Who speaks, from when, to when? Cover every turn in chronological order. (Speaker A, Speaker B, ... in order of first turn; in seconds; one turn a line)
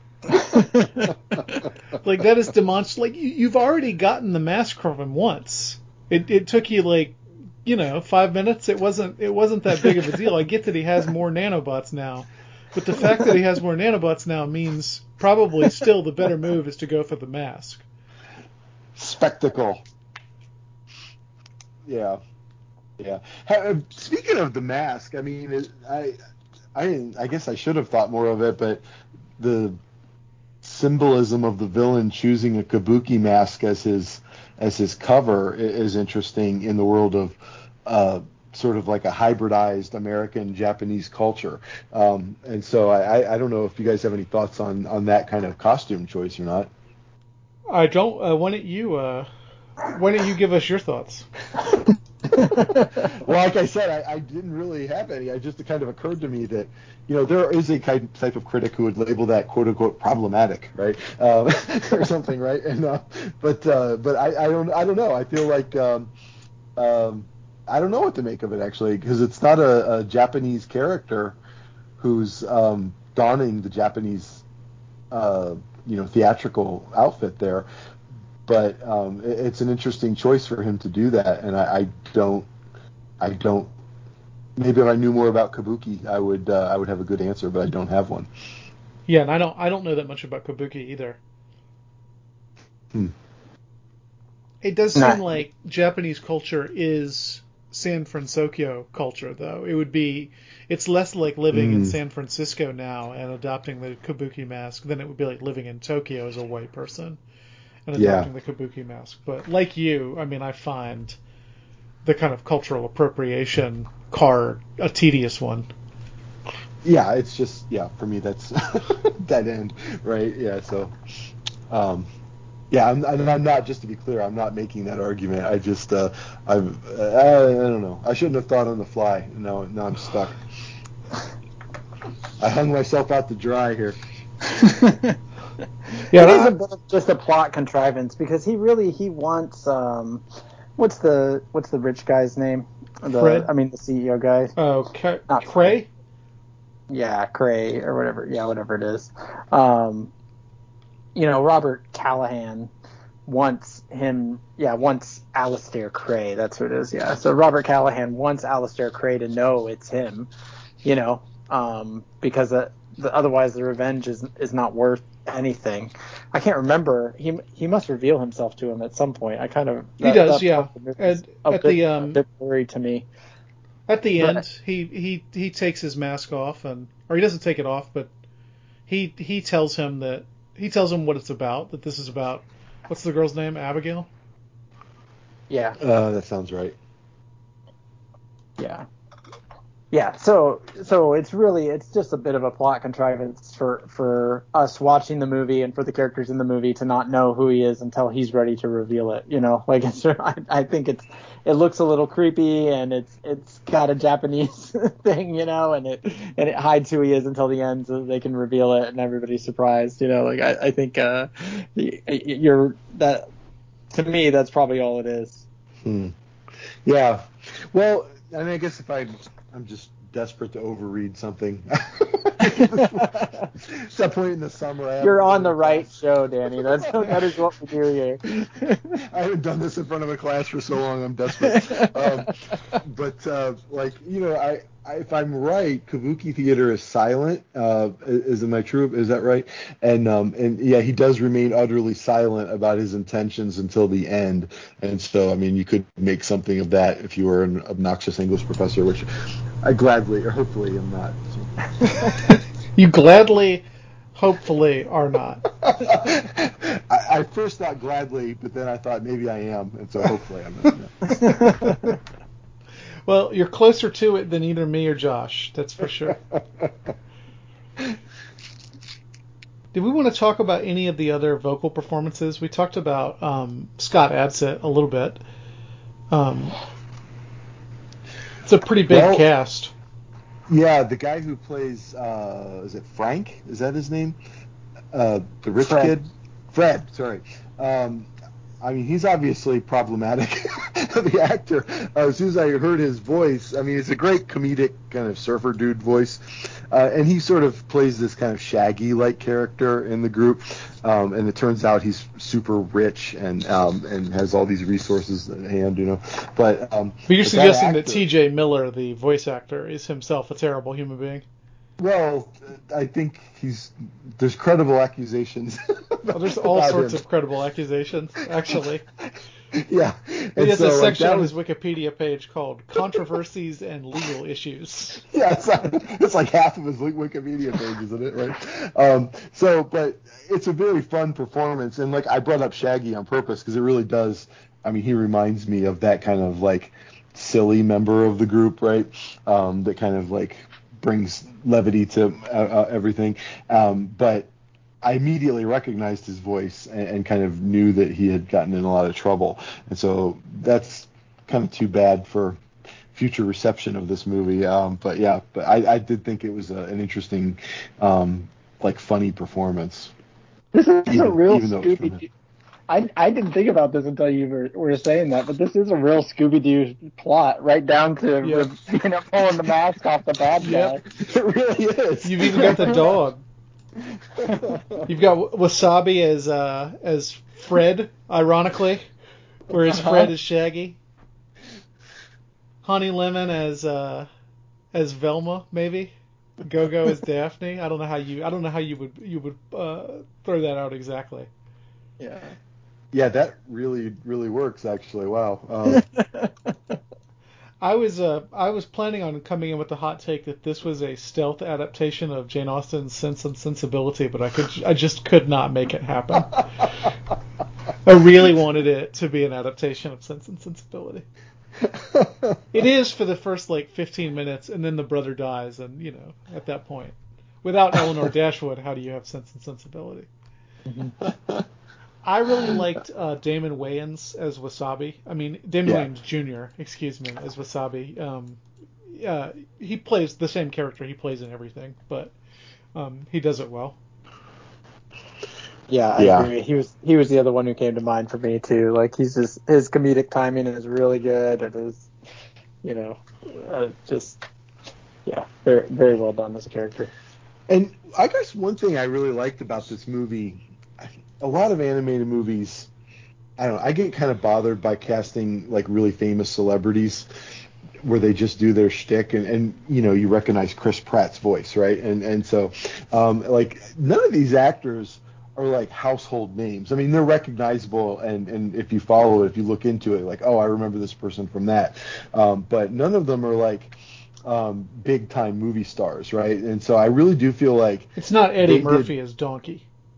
Speaker A: 0.3-1.6
Speaker B: 1.9-17.9
Speaker C: 19.0-19.8
Speaker C: 21.9-22.2
Speaker C: 23.0-26.2
Speaker C: 26.8-28.8
Speaker C: 29.4-29.8
Speaker C: 30.6-46.7
Speaker B: 47.7-49.3
Speaker B: 49.8-51.3
Speaker C: 52.4-66.1
Speaker A: 52.4-53.1
Speaker C: 66.8-71.4
Speaker C: 72.0-74.4
Speaker C: 75.1-77.7
Speaker C: 78.5-82.5
Speaker C: 83.2-83.7
Speaker C: 84.6-88.3
Speaker B: 89.1-91.2
Speaker B: 94.6-107.2
Speaker A: 95.0-95.2
Speaker C: 101.5-102.0
Speaker B: 107.9-111.2
Speaker C: 108.0-108.3
Speaker B: 112.0-115.7
Speaker C: 116.8-120.9
Speaker C: 121.7-122.1
Speaker C: 122.7-130.4
Speaker C: 132.4-134.0
Speaker A: 134.5-135.2
Speaker A: 136.0-140.2
Speaker B: 136.1-136.6
Speaker A: 140.8-144.6
Speaker B: 143.1-143.5
Speaker B: 144.6-145.9
Speaker A: 145.3-145.7
Speaker A: 146.9-150.1
Speaker A: 151.2-152.7
Speaker A: 153.3-160.3
Speaker A: 160.8-173.1
Speaker B: 170.0-172.2
Speaker B: 173.9-178.1
Speaker B: 178.9-184.1
Speaker A: 185.5-185.8
Speaker C: 185.8-186.8
Speaker A: 188.6-188.9
Speaker A: 189.9-213.3
Speaker A: 213.9-215.5
Speaker C: 215.8-216.1
Speaker C: 216.8-225.9
Speaker A: 222.5-223.5
Speaker A: 225.0-229.0
Speaker C: 226.6-227.2
Speaker C: 229.0-249.1
Speaker A: 231.4-232.8
Speaker C: 249.6-252.1
Speaker B: 252.1-253.7
Speaker B: 254.2-255.5
Speaker C: 255.6-261.5
Speaker A: 261.1-261.9
Speaker B: 263.1-266.2
Speaker C: 266.1-266.9
Speaker B: 269.7-275.2
Speaker B: 276.1-276.6
Speaker B: 278.4-279.7
Speaker C: 278.9-279.3
Speaker C: 280.5-284.2
Speaker C: 284.9-288.1
Speaker A: 285.6-285.9
Speaker C: 288.6-308.0
Speaker B: 307.1-311.2
Speaker C: 311.8-317.0
Speaker B: 316.1-318.8
Speaker C: 319.5-321.3
Speaker B: 320.4-325.0
Speaker C: 325.0-344.3
Speaker C: 344.8-352.4
Speaker C: 352.9-359.9
Speaker A: 360.5-362.1
Speaker C: 360.9-362.0
Speaker A: 362.7-370.8
Speaker B: 368.2-368.5
Speaker B: 370.4-370.8
Speaker C: 370.9-372.9
Speaker B: 372.0-373.2
Speaker C: 374.2-374.9
Speaker B: 374.9-378.9
Speaker B: 379.5-380.8
Speaker A: 379.7-380.1
Speaker B: 382.6-384.1
Speaker B: 384.7-391.3
Speaker A: 392.0-392.4
Speaker C: 392.9-395.9
Speaker A: 395.7-396.8
Speaker B: 397.6-406.7
Speaker B: 407.9-411.1
Speaker C: 411.6-412.4
Speaker B: 412.5-420.1
Speaker A: 420.7-420.9
Speaker C: 421.1-421.4
Speaker B: 422.0-428.4
Speaker B: 428.9-432.1
Speaker B: 432.8-433.8
Speaker A: 435.7-441.9
Speaker C: 436.0-436.3
Speaker A: 442.6-444.2
Speaker A: 445.1-446.9
Speaker C: 447.5-452.7
Speaker C: 453.4-457.1
Speaker C: 457.8-478.9
Speaker B: 478.0-479.6